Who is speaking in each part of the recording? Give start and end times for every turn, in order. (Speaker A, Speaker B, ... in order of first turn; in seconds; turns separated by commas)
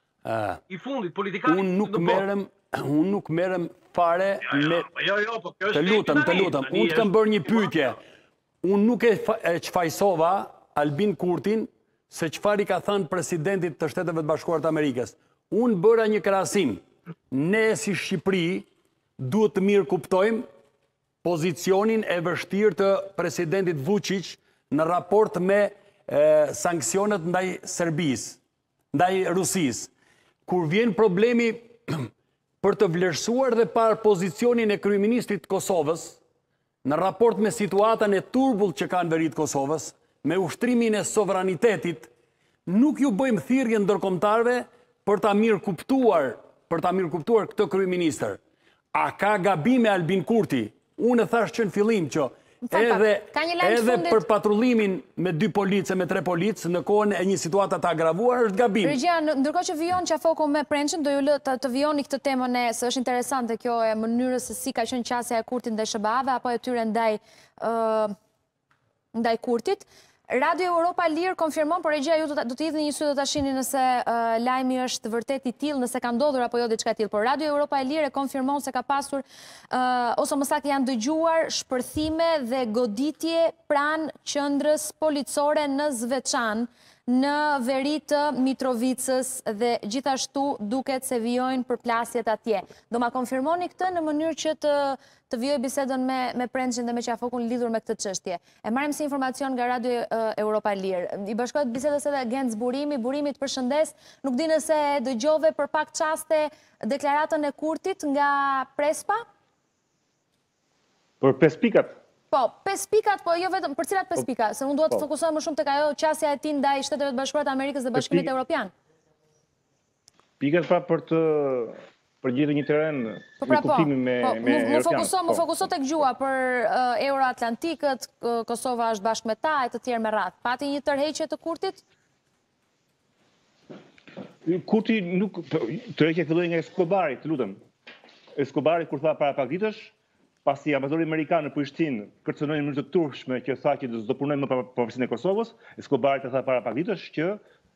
Speaker A: 0.2-0.6, Speaker B: 0.7-2.3, Speaker A: 1.4-4.9, Speaker B: 4.4-7.9, Speaker A: 5.7-8.0, Speaker A: 8.6-18.7, Speaker A: 19.2-20.5, Speaker A: 21.2-28.4, Speaker A: 28.9-29.9, Speaker A: 30.4-32.1, Speaker A: 32.6-36.2, Speaker A: 36.8-42.1, Speaker A: 42.6-48.4, Speaker A: 48.9-59.0, Speaker C: 52.6-54.2, Speaker C: 58.8-68.1, Speaker C: 69.1-109.2, Speaker D: 111.2-112.0, Speaker C: 112.3-118.7, Speaker D: 117.9-118.3, Speaker D: 120.4-125.6, Speaker C: 123.4-131.8, Speaker D: 134.4-137.6, Speaker D: 138.4-139.9, Speaker D: 140.4-147.4